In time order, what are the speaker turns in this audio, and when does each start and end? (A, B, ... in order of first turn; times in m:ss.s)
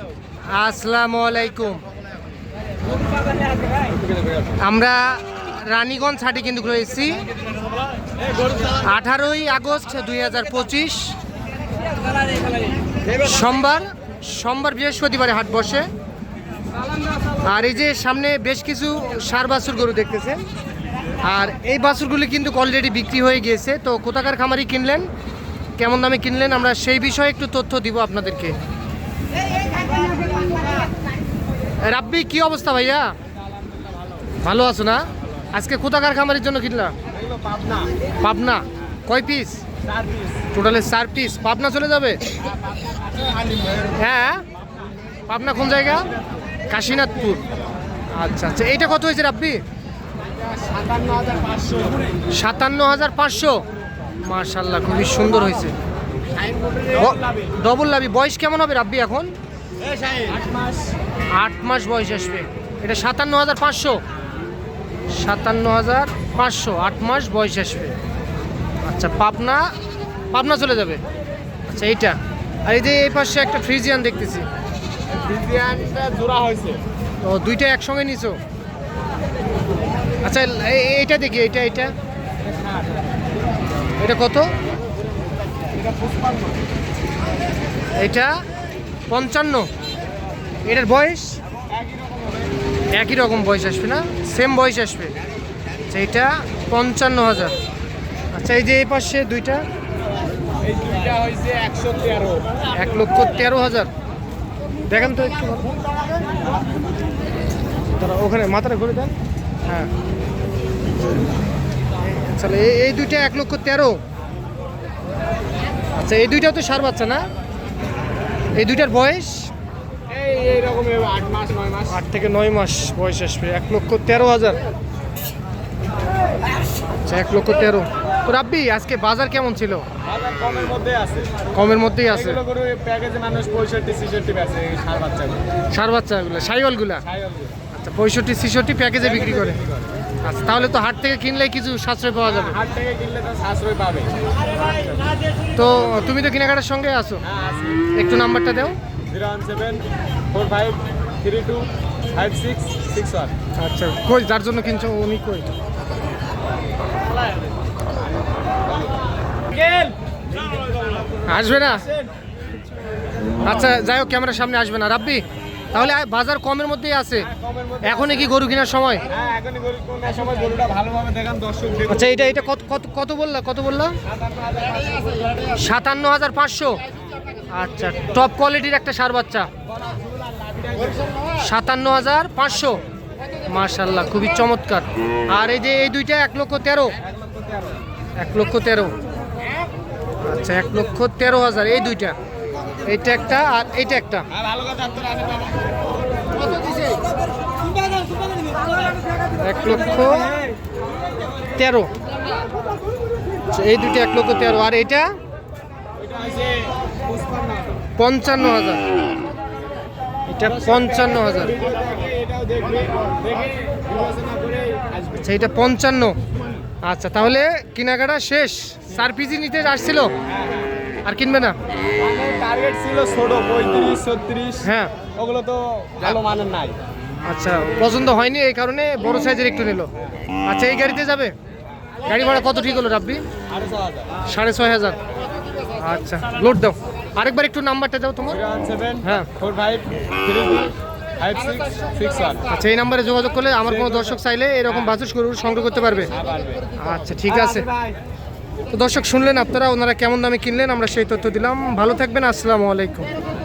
0:00.5-0:01.8 A
0:04.6-0:07.3 A
0:08.8-0:11.2 A
0:13.1-0:15.9 A
0:17.4-0:20.4 A
0:21.2-0:25.1 A
0:25.8-0:28.6 A
0:31.8-0:33.1 A
0:33.4-0:34.3 B
0:34.4-0:37.0 A
0:37.1-0:37.9 B
0:38.2-0:39.6 A
0:39.8-0:40.4 B
0:40.5-0:42.3 A
0:42.8-0:43.9 B
0:43.9-0:44.4 A
0:45.3-0:46.1 A
0:46.7-0:47.4 A
0:48.2-0:49.6 A
0:50.4-0:52.1 B
0:52.3-0:53.6 A
0:54.2-0:55.8 A
0:56.3-0:57.6 B
0:57.0-0:59.3 A
0:59.8-1:00.9 B
1:01.4-1:04.0 A
1:05.1-1:08.0 A
1:08.8-1:09.7 A
1:10.3-1:11.0 A
1:11.7-1:14.5 A
1:15.1-1:16.8 B
1:17.2-1:18.4 A
1:20.2-1:22.0 A
1:22.5-1:22.9 B
1:24.0-1:24.5 A
1:25.6-1:26.6 B
1:28.0-1:28.4 A
1:29.1-1:29.7 A
1:30.6-1:31.4 A
1:31.7-1:32.6 B
1:32.9-1:35.2 A
1:35.9-1:37.6 A
1:38.3-1:39.6 A
1:40.6-1:42.6 B
1:42.7-1:43.9 A
1:44.9-1:45.7 A
1:48.0-1:49.2 A
1:49.7-1:49.9 A
1:52.0-1:54.0 A
1:56.0-1:57.3 A
1:58.6-1:59.5 A
2:00.1-2:02.0 B
2:01.9-2:04.6 A
2:07.1-2:09.9 A
2:10.0-2:11.5 B
2:11.5-2:12.4 A
2:12.1-2:15.5 B
2:15.7-2:17.0 A
2:17.1-2:17.5 B
2:17.7-2:19.6 A
2:19.0-2:19.9 B
2:20.2-2:22.6 A
2:22.3-2:24.2 B
2:25.6-2:27.2 A
2:27.2-2:27.9 B
2:27.9-2:28.8 A
2:29.1-2:33.3 B
2:33.6-2:35.5 A
2:39.5-2:40.0 B
2:40.5-2:42.1 B
2:41.3-2:41.9 A
2:43.4-2:47.3 A
2:47.2-2:48.2 B
2:47.8-2:49.1 A
2:49.1-2:52.2 B
2:51.9-2:54.0 A
2:54.1-2:55.3 B
2:55.5-2:56.8 A
2:57.5-2:59.5 A
2:59.8-3:01.1 B
3:01.4-3:02.8 A
3:03.4-3:07.0 A
3:07.0-3:07.7 B
3:08.2-3:08.9 A
3:10.3-3:12.2 A
3:12.8-3:14.3 A
3:14.3-3:15.7 B
3:16.4-3:17.0 B
3:18.0-3:18.8 B
3:19.4-3:20.3 A
3:21.6-3:21.9 A
3:23.5-3:25.1 A
3:26.0-3:27.8 B
3:28.0-3:28.8 A
3:30.3-3:31.6 A
3:30.4-3:35.3 B
3:35.2-3:36.2 A
3:36.8-3:40.1 A
3:40.3-3:40.6 B
3:41.0-3:41.6 A
3:42.0-3:46.8 B
3:44.6-3:45.0 A
3:47.3-3:49.9 A
3:50.4-3:51.3 A
3:52.1-3:53.2 A
3:53.5-3:54.1 B
3:54.3-3:55.0 A
3:55.8-3:58.4 A
3:58.3-4:02.5 B
3:59.0-3:59.3 A
4:02.5-4:06.2 A
4:03.9-4:04.2 B
4:06.1-4:06.7 B
4:06.8-4:07.7 A
4:07.2-4:08.0 B
4:08.7-4:13.1 A